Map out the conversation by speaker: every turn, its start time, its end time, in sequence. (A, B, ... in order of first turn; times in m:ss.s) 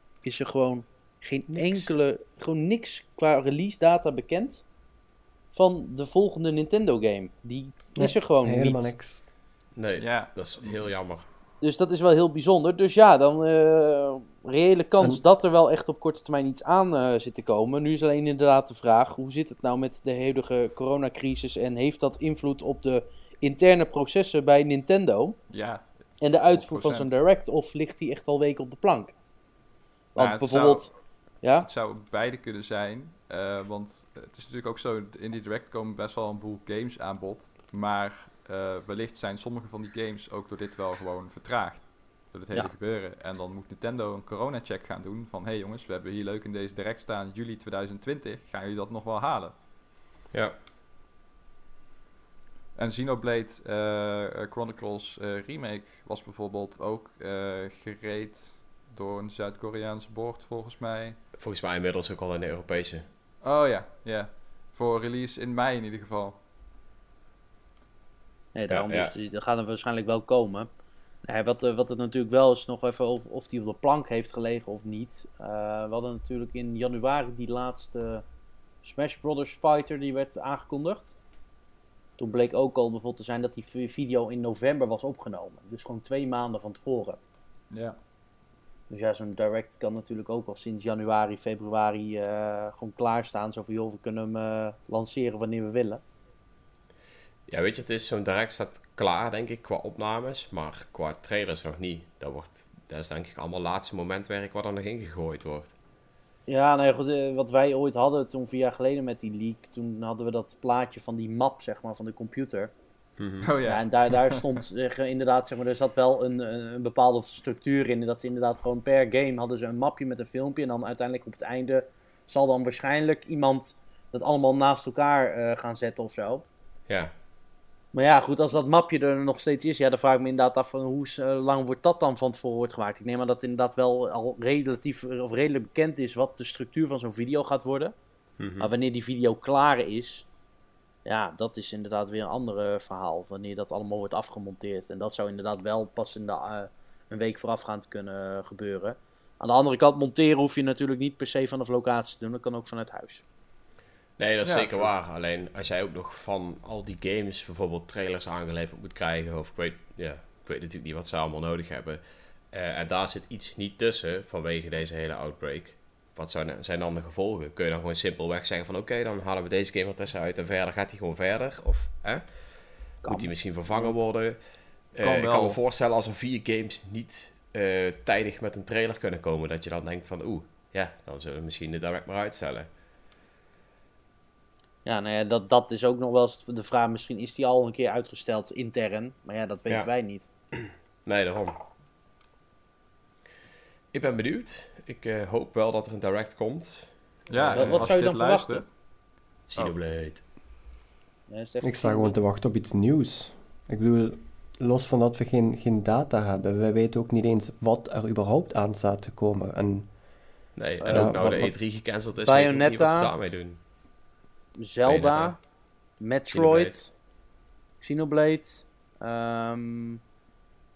0:00.2-0:04.6 A
0:05.5-0:08.9 A
0:08.0-0:09.2 B
0:09.8-0:11.2 C
0:10.0-0:10.9 D
0:11.6-0:25.4 A
0:25.5-0:25.8 D
0:26.2-0:29.1 A
0:26.4-0:27.1 D
0:30.1-0:31.7 A
0:30.2-0:30.9 D
0:31.6-0:49.5 D
0:52.8-1:01.2 D
1:01.4-1:03.1 C
1:03.4-1:06.4 D
1:08.5-1:10.7 A
1:08.7-1:09.1 C
1:11.2-1:18.2 A
1:18.8-1:21.1 A
1:22.2-1:27.2 A
1:27.7-1:28.0 D
1:28.9-1:36.0 A
1:37.5-1:45.7 C
1:46.5-1:52.7 A
1:53.2-1:53.5 C
1:53.4-1:54.4 D
1:53.6-2:06.4 A
2:07.9-2:17.9 A
2:18.4-2:18.7 C
2:18.6-2:20.3 A
2:21.0-2:33.2 A
2:34.2-3:02.7 C
2:34.4-2:34.9 D
2:53.0-2:53.3 A
2:55.0-2:55.6 D
3:04.8-3:10.2 A
3:10.5-3:11.5 C
3:13.9-3:18.0 C
3:17.3-3:18.7 D
3:17.5-3:18.6 A
3:19.5-3:20.2 C
3:21.3-3:22.1 A
3:21.6-3:29.9 B
3:30.6-3:33.6 C
3:30.8-3:31.3 A
3:30.9-3:31.5 B
3:32.2-3:33.1 A
3:34.6-3:35.4 A
3:34.8-3:35.4 C
3:36.0-3:36.9 A
3:36.3-3:36.8 C
3:37.8-3:40.0 A